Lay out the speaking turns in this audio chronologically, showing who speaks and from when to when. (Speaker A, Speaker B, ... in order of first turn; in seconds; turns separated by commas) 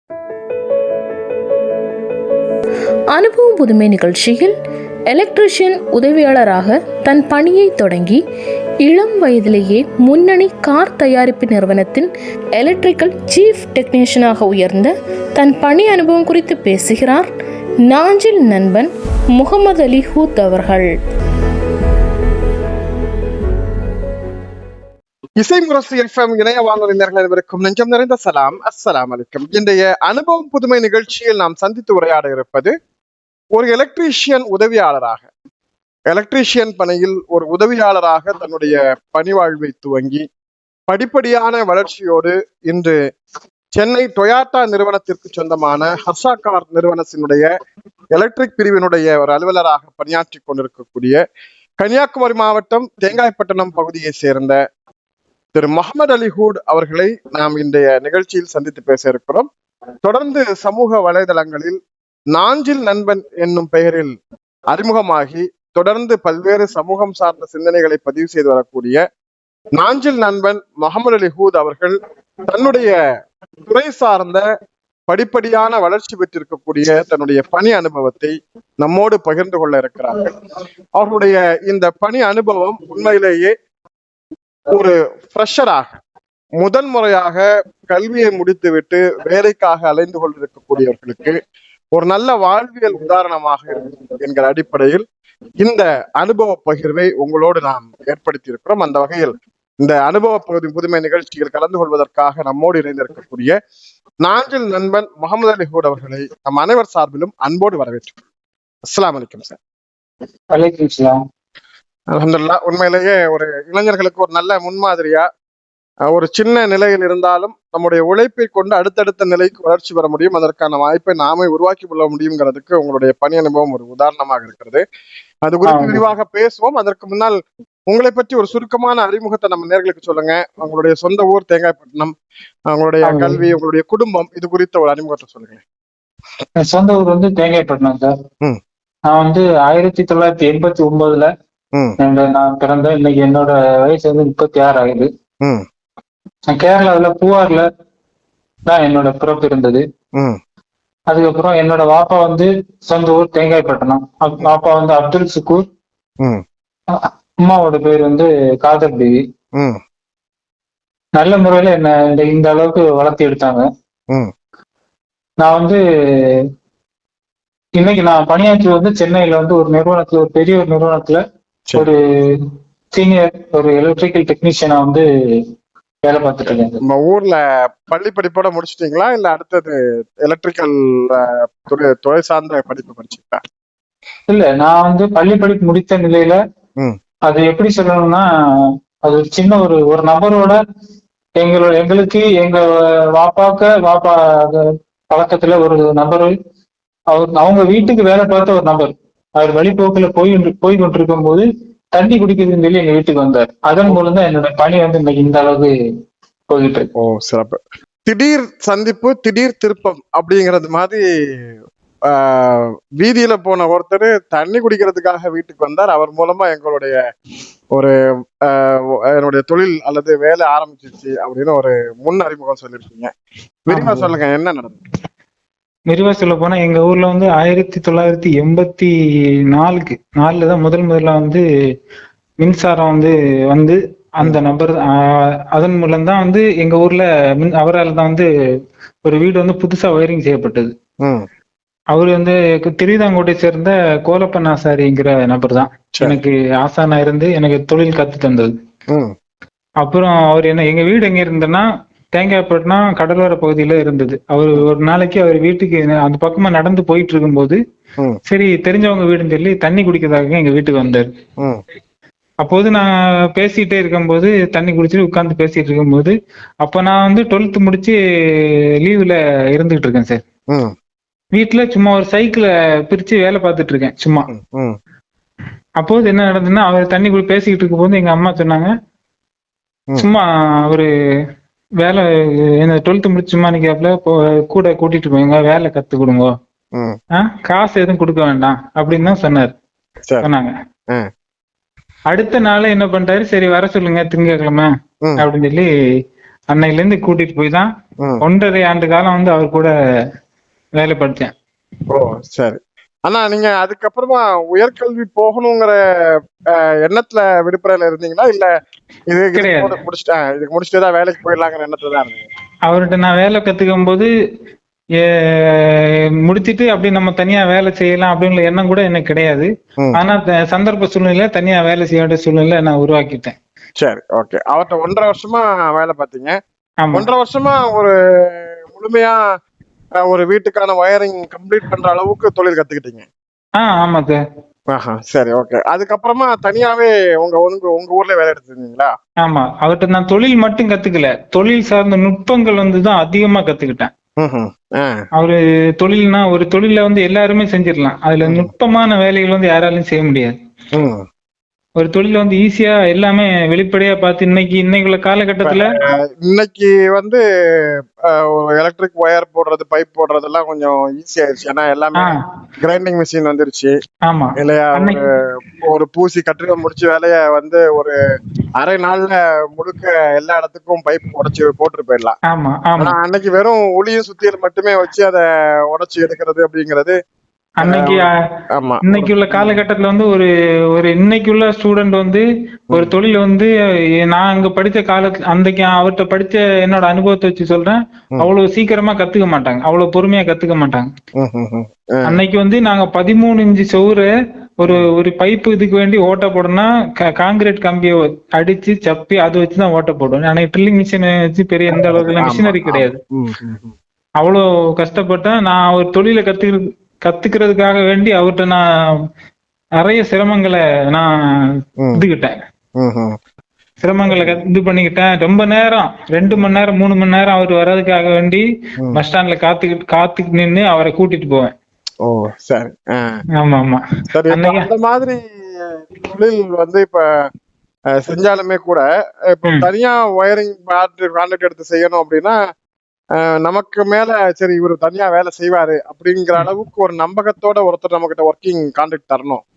Speaker A: 3.1-4.5, Speaker A: 5.1-8.2, Speaker A: 8.8-17.3, Speaker A: 17.8-20.9, Speaker B: 25.4-32.7, Speaker B: 33.5-35.3, Speaker B: 36.1-40.2, Speaker B: 40.9-43.0, Speaker B: 43.8-47.5, Speaker B: 48.1-51.2, Speaker B: 51.8-54.6, Speaker B: 55.5-59.5, Speaker B: 60.0-61.8, Speaker B: 62.3-64.2, Speaker B: 64.7-69.0, Speaker B: 69.8-73.0, Speaker B: 73.7-74.5, Speaker B: 75.1-80.4, Speaker B: 81.0-83.5, Speaker B: 84.7-85.9, Speaker B: 86.6-91.4, Speaker B: 91.9-95.0, Speaker B: 95.6-103.5, Speaker B: 104.2-108.2, Speaker B: 108.9-109.6, Speaker C: 110.5-111.2, Speaker B: 112.1-115.3, Speaker B: 116.1-124.8, Speaker B: 125.5-132.1, Speaker C: 125.7-126.0, Speaker B: 132.7-135.6, Speaker C: 133.1-133.4, Speaker C: 136.6-138.2, Speaker C: 139.1-141.3, Speaker C: 142.0-145.1, Speaker C: 146.5-147.7, Speaker C: 148.7-149.8, Speaker B: 150.2-150.4, Speaker C: 151.1-155.7, Speaker C: 156.9-159.2, Speaker B: 159.6-159.8, Speaker C: 161.2-163.7, Speaker C: 165.4-166.4, Speaker C: 167.8-171.2, Speaker C: 171.8-172.4, Speaker C: 172.9-175.0, Speaker C: 176.1-176.8, Speaker B: 176.8-183.4, Speaker C: 184.3-186.4, Speaker C: 187.3-188.2, Speaker C: 189.1-190.6, Speaker C: 191.4-196.3, Speaker C: 197.1-205.7, Speaker C: 206.5-206.9, Speaker B: 207.0-211.0, Speaker B: 212.1-217.0, Speaker B: 217.7-223.1, Speaker B: 223.7-224.8, Speaker C: 223.7-224.1, Speaker C: 225.9-228.9, Speaker C: 229.5-231.4, Speaker C: 232.4-238.3, Speaker C: 239.1-240.7, Speaker B: 241.0-241.3, Speaker C: 241.9-248.5, Speaker C: 249.8-257.6, Speaker C: 258.3-261.1, Speaker C: 262.4-270.2, Speaker C: 271.3-274.3, Speaker B: 274.3-274.8, Speaker C: 275.8-278.7, Speaker C: 280.0-280.9, Speaker C: 282.6-286.3, Speaker B: 286.7-287.0, Speaker C: 287.2-289.5, Speaker C: 290.2-290.5, Speaker C: 292.1-295.7, Speaker C: 296.5-297.7, Speaker C: 298.2-299.7, Speaker C: 300.8-301.3, Speaker B: 301.9-305.8, Speaker B: 306.5-308.5, Speaker B: 309.1-312.3, Speaker C: 309.4-309.8, Speaker C: 312.7-314.1, Speaker C: 315.0-323.4, Speaker B: 323.8-326.4, Speaker C: 326.8-327.1, Speaker B: 326.9-329.2, Speaker B: 330.0-333.1, Speaker C: 333.6-334.2, Speaker B: 334.7-338.9, Speaker C: 339.2-343.9, Speaker B: 344.2-345.1, Speaker C: 345.2-350.4, Speaker B: 348.2-348.5, Speaker B: 350.7-351.1, Speaker C: 351.8-355.8, Speaker B: 355.4-363.7, Speaker C: 364.1-365.0, Speaker B: 364.4-368.0, Speaker B: 368.6-372.1, Speaker C: 372.3-372.9, Speaker B: 372.8-376.9, Speaker C: 377.6-378.1, Speaker B: 377.6-379.6, Speaker C: 378.9-383.5, Speaker C: 384.1-390.9, Speaker B: 391.2-392.2, Speaker C: 392.1-394.1, Speaker C: 394.6-403.0, Speaker B: 401.7-403.8, Speaker C: 404.2-408.6, Speaker C: 409.8-411.1, Speaker C: 411.9-412.4, Speaker B: 412.8-413.2, Speaker C: 413.8-421.5, Speaker B: 414.1-414.4, Speaker B: 422.0-423.2, Speaker C: 423.4-424.7, Speaker B: 424.1-427.3, Speaker B: 427.9-432.4, Speaker B: 433.2-439.4